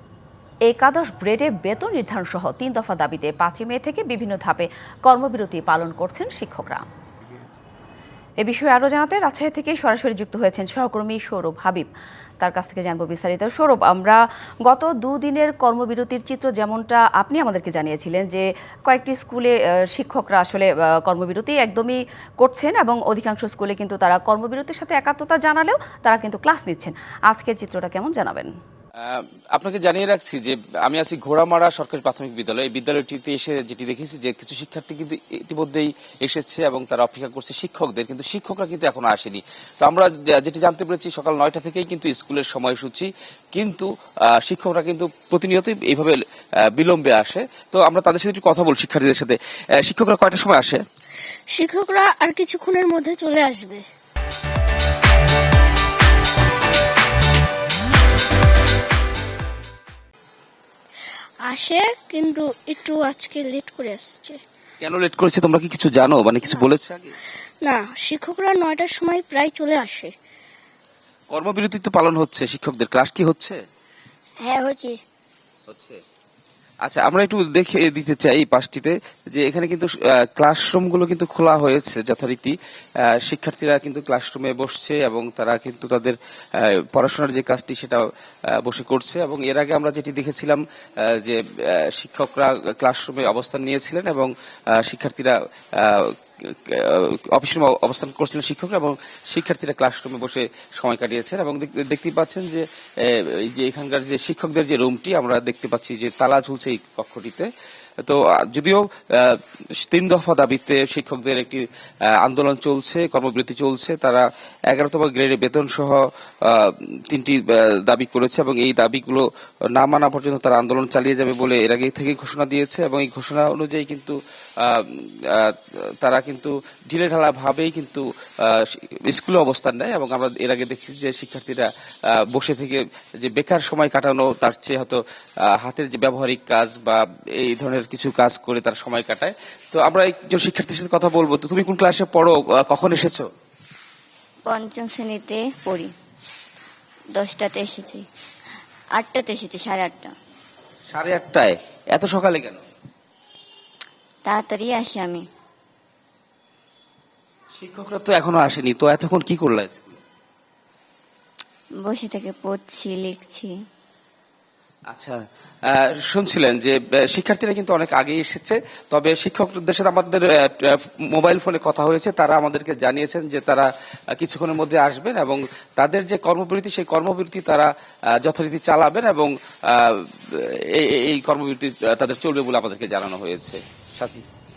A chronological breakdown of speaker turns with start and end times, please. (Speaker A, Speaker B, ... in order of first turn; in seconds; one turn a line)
Speaker A: 0.7-6.8
Speaker A: 8.4-11.9
Speaker A: 12.4-28.5
Speaker B: 29.0-46.2
Speaker B: 46.7-50.8
Speaker C: 51.5-53.9
Speaker C: 61.5-64.4
Speaker B: 64.8-67.2
Speaker C: 67.6-70.1
Speaker B: 71.3-73.6
Speaker B: 75.7-76.0
Speaker B: 76.8-82.5
Speaker B: 83.1-107.5
Speaker B: 108.0-111.6
Speaker B: 112.2-143.3
Speaker D: 144.5-145.9
Speaker D: 147.2-148.0
Speaker D: 149.0-150.1
Speaker B: 150.9-152.6
Speaker D: 154.3-155.3
Speaker B: 157.6-160.0
Speaker D: 161.8-163.5
Speaker B: 164.9-184.2